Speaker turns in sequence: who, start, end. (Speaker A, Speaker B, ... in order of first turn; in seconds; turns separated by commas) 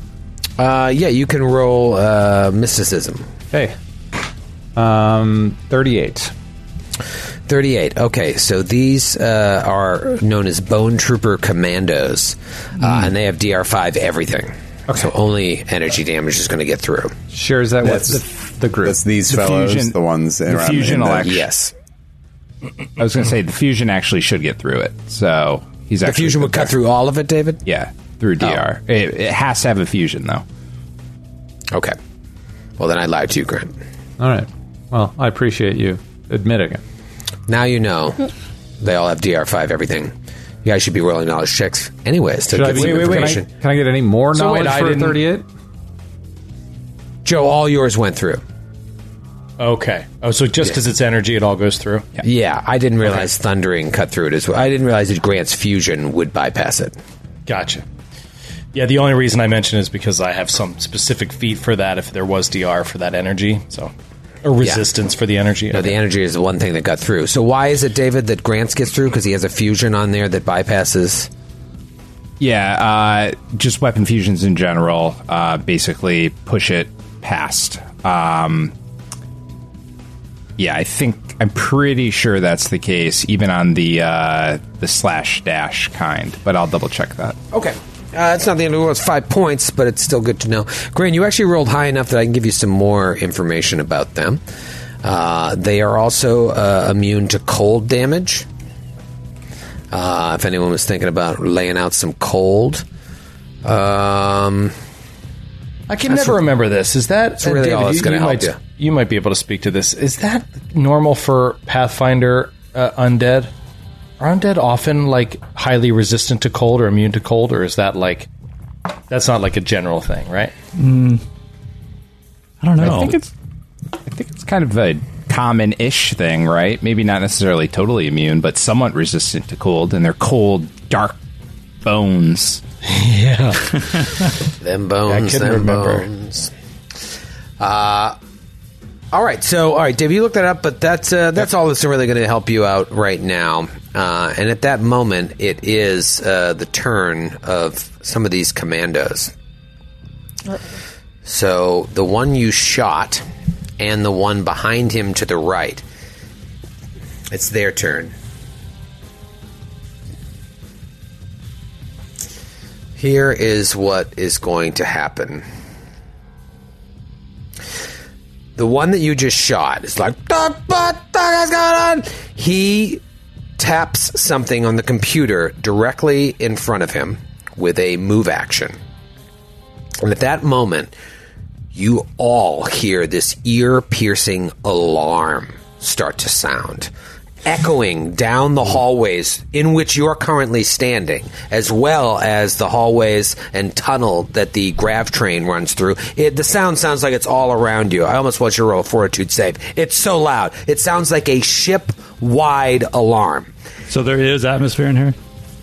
Speaker A: 0.6-3.3, Speaker B: 3.5-3.8, Speaker B: 4.8-6.3, Speaker A: 7.5-17.1, Speaker B: 17.3-19.0, Speaker C: 17.8-18.3, Speaker C: 18.8-21.4, Speaker D: 19.3-21.4, Speaker A: 21.2-21.7, Speaker D: 23.0-26.7, Speaker A: 26.0-27.6, Speaker D: 27.7-30.4, Speaker A: 32.8-33.7, Speaker B: 34.2-36.8, Speaker A: 37.5-38.3, Speaker A: 38.8-40.1, Speaker A: 40.6-43.5, Speaker B: 42.5-45.5, Speaker E: 42.6-43.4, Speaker E: 44.3-45.2, Speaker A: 47.2-48.4, Speaker E: 49.6-52.1, Speaker A: 52.2-57.0, Speaker E: 57.5-57.9, Speaker E: 58.7-63.9, Speaker E: 64.4-66.0, Speaker A: 65.7-71.3, Speaker D: 72.4-78.8, Speaker D: 80.6-87.4, Speaker A: 87.5-94.4, Speaker A: 95.0-98.5, Speaker A: 99.9-102.8, Speaker A: 103.6-104.8, Speaker E: 105.9-113.5, Speaker A: 106.1-106.4, Speaker A: 107.4-108.6, Speaker E: 114.2-118.3, Speaker E: 119.1-120.5, Speaker F: 120.8-121.2, Speaker F: 122.6-123.2, Speaker D: 122.8-123.3, Speaker D: 124.1-131.2, Speaker D: 131.8-132.6, Speaker E: 132.8-134.1, Speaker A: 134.6-136.5, Speaker E: 135.1-136.1, Speaker A: 137.6-138.2, Speaker A: 139.1-149.3, Speaker A: 151.2-153.2, Speaker A: 153.8-155.8, Speaker A: 157.3-158.1, Speaker A: 163.0-165.4, Speaker A: 168.6-173.0, Speaker A: 173.6-178.8, Speaker A: 180.0-180.9, Speaker A: 181.7-186.9, Speaker A: 187.4-203.5, Speaker F: 203.9-205.2